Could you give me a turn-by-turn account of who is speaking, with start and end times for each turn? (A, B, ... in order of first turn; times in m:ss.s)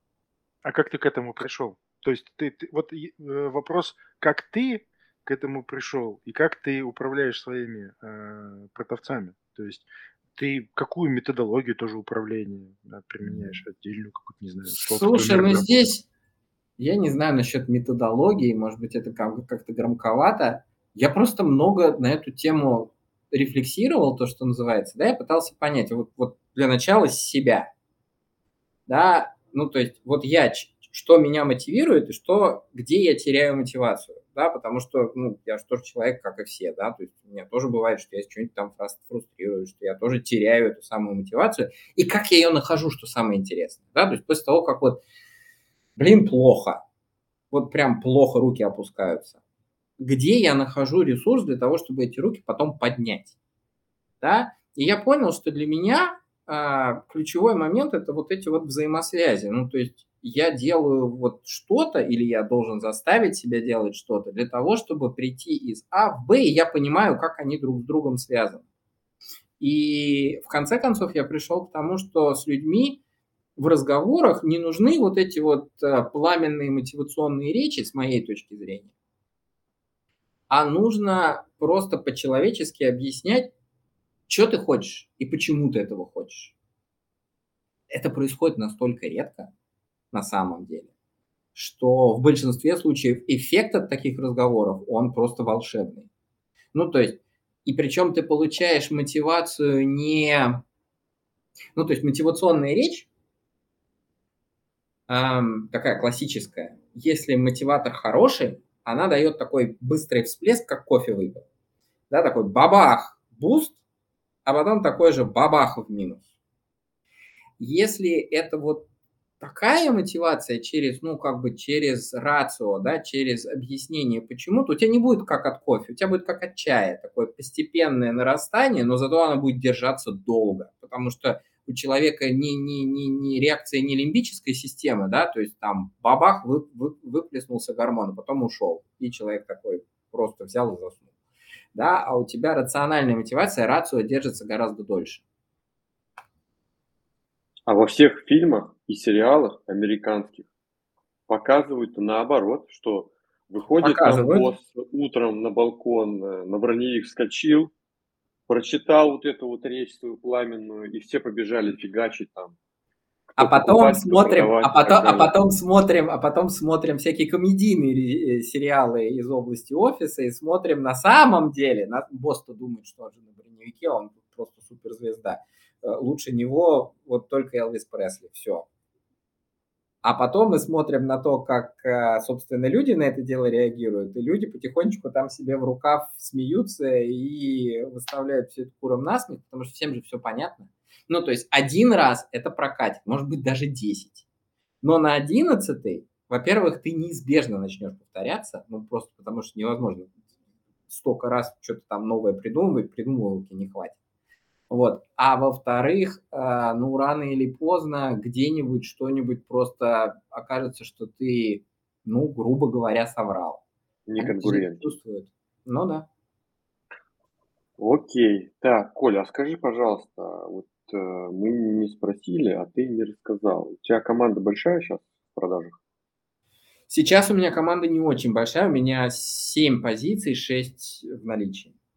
0:00.6-0:15.7 A
0:14.7-0:16.0 B
0:16.8-0:27.7 B
0:28.9-0:45.0 B
0:46.0-0:46.8 B
0:47.5-0:49.4 B
0:50.0-0:53.3 B
0:54.2-1:08.6 B
1:09.6-1:13.0 B
1:13.6-1:18.9 B
1:20.5-1:23.5 B
1:24.3-1:26.5 B
1:27.9-1:29.5 B
1:30.1-1:30.9 B
1:31.6-1:36.1 B
1:36.7-1:40.6 B
1:41.8-1:43.1 B
1:45.1-1:51.4 B
1:52.1-1:53.8 B
1:54.5-1:56.3 B
1:57.6-1:58.9 B
1:59.4-2:21.0 B
2:21.7-2:25.2 B
2:27.7-2:30.5 C
2:31.3-2:37.7 C
2:33.8-2:34.5 B
2:38.5-2:42.6 C
2:43.3-2:45.3 C
2:43.4-2:58.7 B
3:00.0-3:14.2 B
3:14.8-3:20.1 B
3:20.9-3:24.0 B
3:24.7-3:33.6 B
3:34.1-3:34.8 C
3:34.2-3:36.1 B
3:37.8-3:45.8 C
3:46.9-3:51.7 B